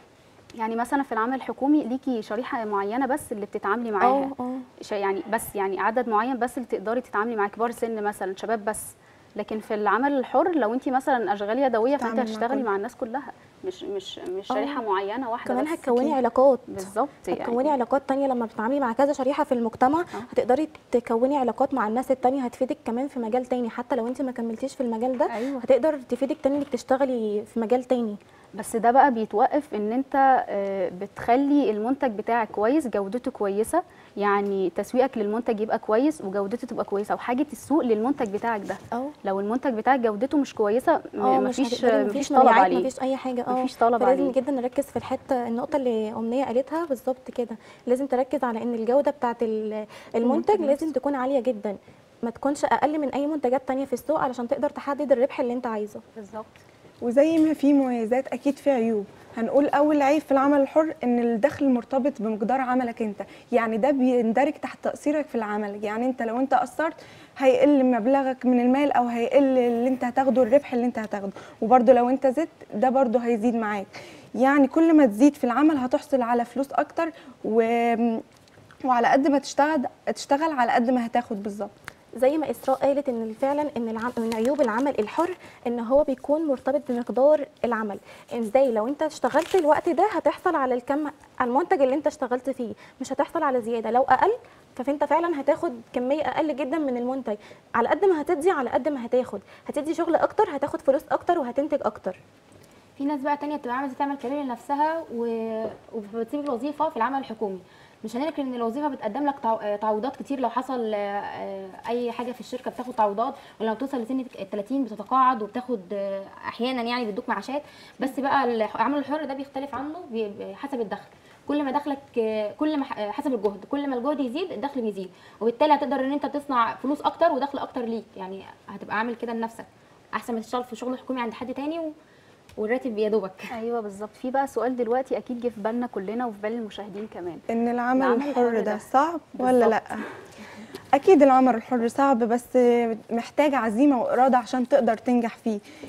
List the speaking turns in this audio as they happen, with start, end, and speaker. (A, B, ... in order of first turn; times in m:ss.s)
0:00.6-0:04.3 A
0:04.0-0:04.7 B
0:04.8-0:16.2 A
0:12.0-0:12.7 C
0:14.5-0:14.8 B
0:15.4-0:28.2 B
0:16.7-0:17.7 A
0:25.3-0:25.6 A
0:28.6-0:42.9 A
0:41.2-0:56.0 B
0:43.5-0:44.4 A
0:50.2-0:50.8 C
0:56.2-0:56.6 A
0:57.0-1:18.2 C
1:18.8-1:21.7 C
1:22.2-1:42.2 B
1:43.0-2:11.9 D
2:12.6-2:13.5 D
2:13.5-2:17.4 A
2:17.5-2:20.0 C
2:18.0-2:18.8 A
2:19.4-2:19.8 A
2:20.9-2:25.6 C